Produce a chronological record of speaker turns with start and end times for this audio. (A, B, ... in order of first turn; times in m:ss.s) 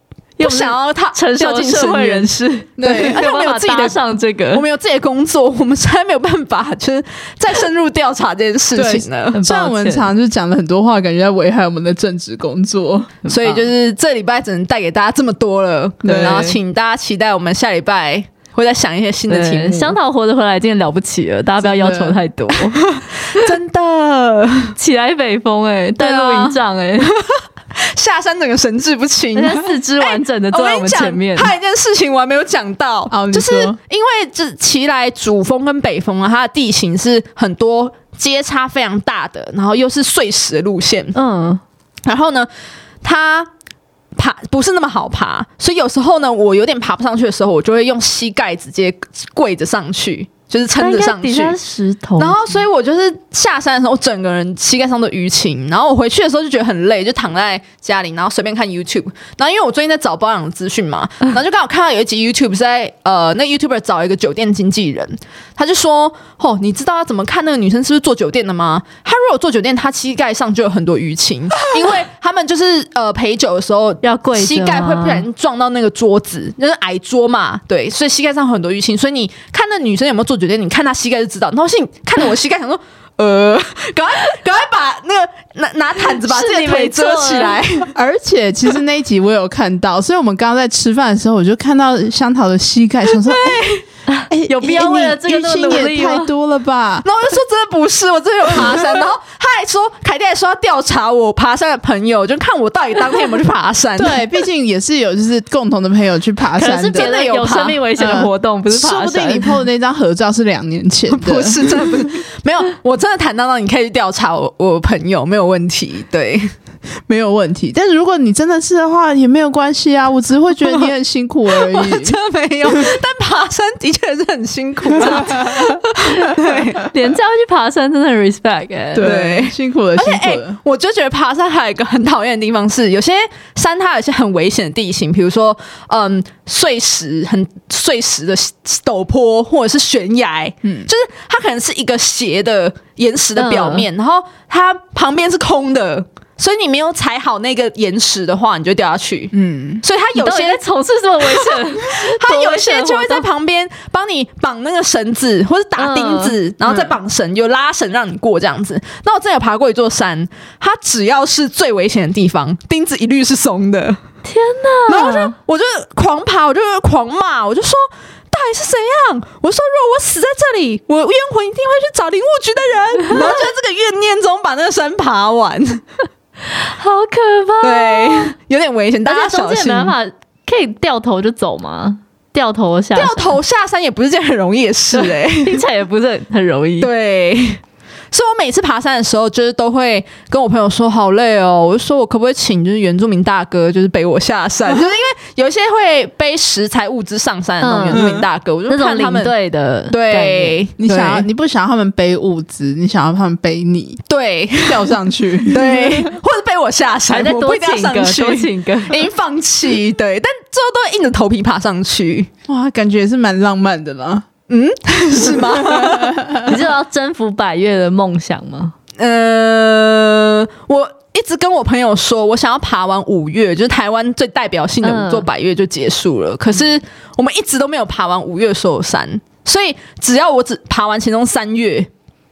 0:00.4-0:04.6 A
0:00.4-0:09.4 B
0:02.8-0:03.2 C
0:08.8-0:13.1 C
0:09.3-0:10.1 A
0:13.2-0:13.7 A
0:13.3-0:20.0 B
0:16.0-0:16.6 C
0:16.1-0:16.5 A
0:19.3-0:22.8 A
0:21.6-0:22.2 C
0:22.6-0:24.7 B
0:24.8-0:27.1 A
0:26.0-0:27.3 B
0:27.9-0:41.2 B
0:29.4-0:31.5 A
0:33.1-0:33.8 C
0:41.1-0:41.6 A
0:42.1-0:42.5 B
0:43.0-0:43.5 B
0:44.2-0:51.6 B
0:50.8-0:52.6 A
0:52.2-1:27.9 B
1:14.0-1:15.3 A
1:26.2-1:27.6 A
1:28.0-1:33.7 C
1:33.1-1:33.8 B
1:34.1-1:36.3 A
1:34.3-1:37.0 C
1:37.0-1:44.2 B
1:44.0-1:47.1 C
1:46.6-1:49.6 A
1:46.9-1:47.8 B
1:48.0-1:51.6 C
1:51.1-1:56.5 B
1:57.1-2:02.2 C
2:00.6-2:00.9 B
2:01.5-2:06.8 B
2:05.0-2:05.4 A
2:06.8-2:09.1 A
2:08.9-2:10.6 C
2:09.0-2:30.6 B
2:20.6-2:20.9 C
2:23.4-2:23.9 A
2:29.3-2:29.8 C
2:30.2-2:33.3 A
2:31.2-2:44.0 B
2:35.8-2:36.4 A
2:44.2-2:45.4 A
2:44.9-2:55.8 B
2:53.1-2:53.4 A
2:56.5-2:58.3 A
2:57.6-3:00.0 B
2:59.1-3:03.4 A
3:03.0-3:05.6 B
3:04.9-3:06.9 A
3:06.8-3:07.6 B
3:08.1-3:19.3 B
3:17.6-3:18.1 A
3:17.9-3:18.2 C
3:18.7-3:20.6 A
3:19.9-3:21.3 B
3:20.8-3:24.0 C
3:24.1-3:32.3 B
3:24.6-3:26.1 C
3:27.1-3:29.0 A
3:32.5-3:34.2 C
3:34.5-3:36.4 B
3:35.7-3:36.2 C
3:36.4-3:38.7 A
3:39.0-3:51.9 B
3:44.8-3:45.3 A